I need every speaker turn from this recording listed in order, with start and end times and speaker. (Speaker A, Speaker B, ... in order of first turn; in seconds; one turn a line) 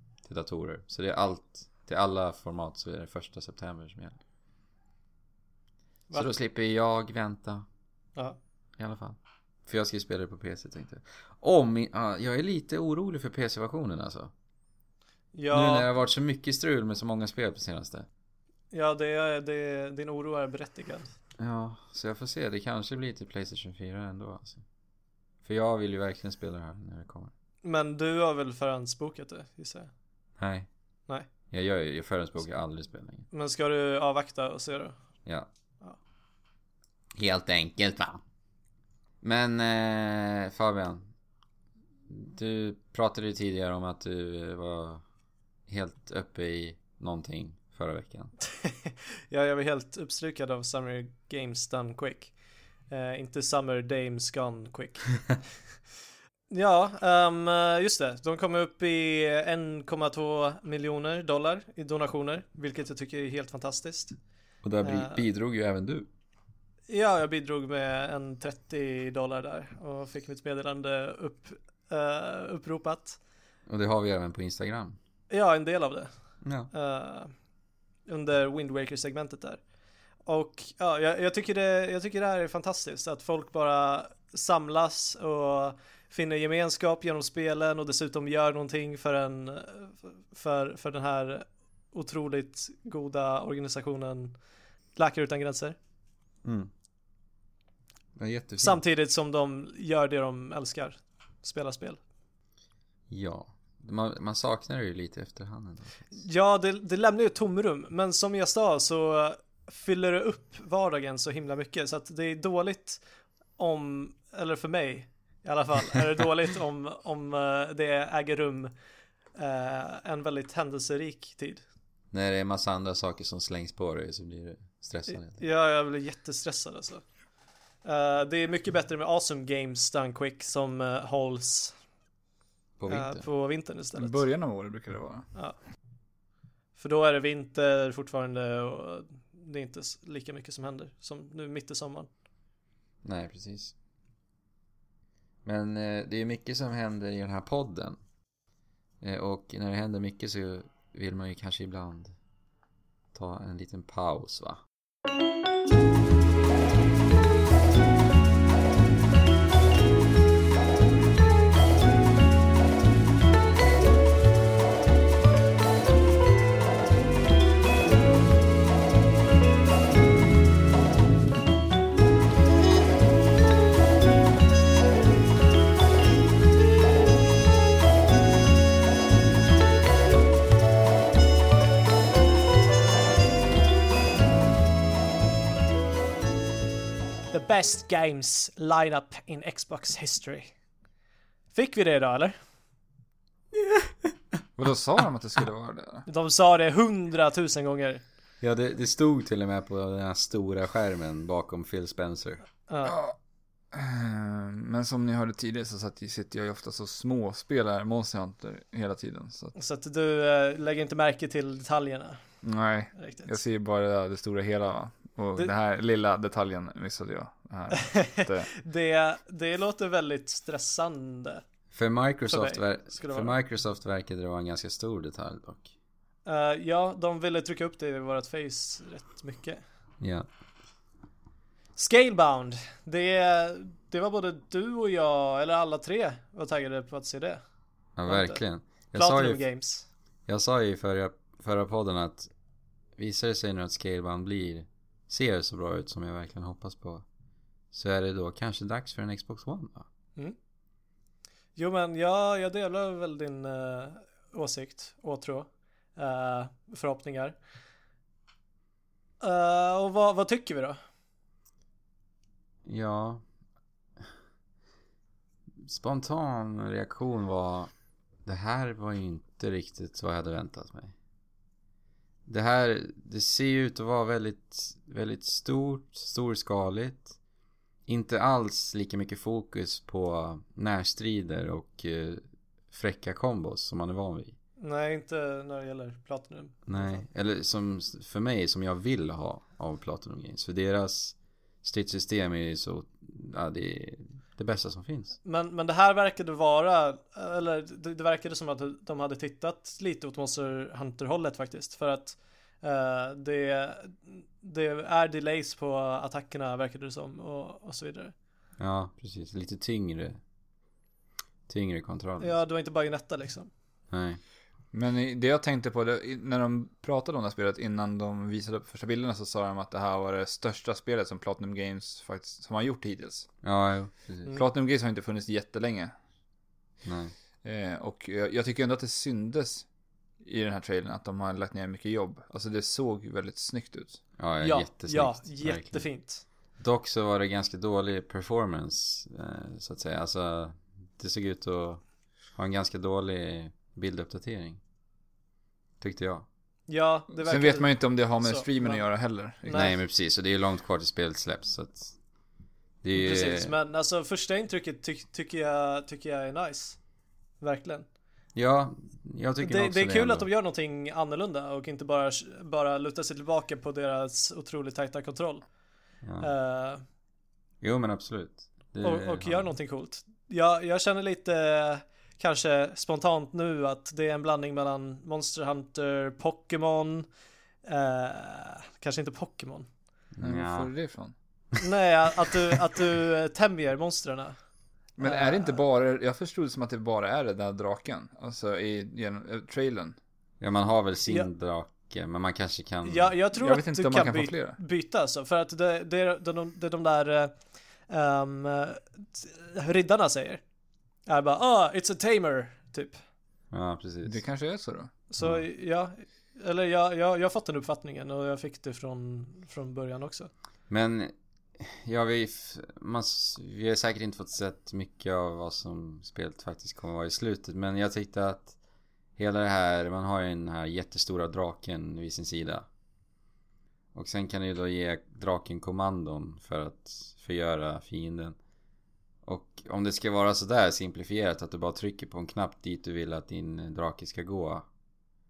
Speaker A: 0.2-4.2
Speaker A: 6.1-7.6
Speaker A: 8.8-14.3
Speaker B: 15.3-15.9
Speaker A: 15.5-18.1
Speaker B: 18.7-21.1
Speaker A: 21.4-24.6
Speaker A: 25.4-27.3
Speaker B: 27.6-29.9
Speaker A: 30.4-30.7
Speaker A: 31.5-33.2
Speaker B: 33.3-35.0
Speaker A: 37.1-38.2
Speaker A: 39.2-41.1
Speaker A: 42.1-45.0
Speaker A: 45.7-48.3
Speaker B: 48.6-52.3
Speaker B: 52.9-55.4
Speaker B: 56.5-64.2
Speaker A: 64.6-66.1
Speaker B: 64.8-65.2
Speaker B: 66.9-73.2
Speaker A: 73.7-75.0
Speaker B: 75.3-76.1
Speaker A: 76.4-76.7
Speaker B: 76.7-77.3
Speaker B: 78.1-79.6
Speaker B: 80.2-94.4
Speaker B: 94.9-95.8
Speaker A: 96.4-96.7
Speaker A: 98.2-98.8
Speaker B: 98.6-102.0
Speaker A: 103.1-106.1
Speaker B: 106.1-113.0
Speaker B: 113.6-118.7
Speaker B: 119.3-121.6
Speaker A: 122.1-125.4
Speaker B: 125.3-127.0
Speaker B: 127.8-131.7
Speaker A: 132.8-133.2
Speaker B: 132.9-134.2
Speaker C: 133.9-135.3
Speaker B: 136.8-142.1
Speaker A: 143.0-143.7
Speaker A: 145.4-148.0
Speaker A: 149.0-152.1
Speaker A: 153.1-154.6
Speaker B: 187.3-190.5
Speaker B: 191.5-192.3
Speaker C: 194.6-196.0
Speaker B: 196.1-198.0
Speaker A: 198.4-202.4
Speaker B: 202.7-203.0
Speaker C: 202.8-203.2
Speaker C: 203.7-209.5
Speaker B: 209.5-212.2
Speaker C: 212.4-218.5
Speaker B: 212.9-213.3
Speaker B: 217.8-221.4
Speaker A: 221.7-225.7
Speaker B: 222.3-223.3
Speaker B: 226.2-229.6
Speaker A: 230.0-230.3
Speaker B: 231.8-237.4
Speaker A: 237.9-239.5
Speaker B: 238.0-239.8
Speaker A: 240.3-242.3
Speaker A: 243.0-247.0
Speaker A: 247.7-249.9
Speaker B: 251.6-257.4
Speaker B: 259.2-260.8
Speaker A: 262.6-263.2
Speaker A: 265.6-267.7
Speaker A: 268.2-270.9
Speaker A: 272.3-277.2
Speaker A: 277.9-284.4
Speaker B: 284.6-287.0
Speaker A: 286.7-295.2
Speaker B: 295.2-308.1
Speaker A: 308.6-310.2
Speaker A: 311.5-312.4
Speaker B: 312.2-313.5
Speaker A: 313.9-314.2
Speaker C: 314.7-323.3
Speaker A: 323.4-324.3
Speaker C: 324.3-325.9
Speaker A: 326.8-327.1
Speaker C: 327.4-329.7
Speaker C: 330.2-334.0
Speaker A: 334.2-344.6
Speaker B: 334.4-336.2
Speaker A: 345.8-346.2
Speaker B: 346.7-348.9
Speaker C: 347.1-349.7
Speaker B: 349.4-349.8
Speaker A: 349.5-352.0
Speaker A: 352.8-353.5
Speaker B: 352.9-356.8
Speaker B: 357.4-357.9
Speaker A: 358.3-360.3
Speaker B: 359.4-365.5
Speaker A: 366.0-366.3
Speaker B: 366.2-366.8
Speaker A: 367.6-369.5
Speaker B: 368.8-377.1
Speaker B: 377.6-379.7
Speaker A: 380.1-380.7
Speaker C: 380.2-381.1
Speaker B: 381.6-384.4
Speaker C: 385.0-390.0
Speaker B: 385.0-385.6
Speaker A: 390.4-393.1
Speaker B: 392.8-400.4
Speaker C: 393.4-394.6
Speaker B: 401.1-403.0
Speaker A: 403.5-404.2
Speaker C: 404.0-404.9
Speaker B: 405.1-410.3
Speaker A: 405.2-405.4
Speaker A: 410.7-418.6
Speaker A: 419.1-422.6
Speaker A: 423.9-428.4
Speaker A: 429.2-434.6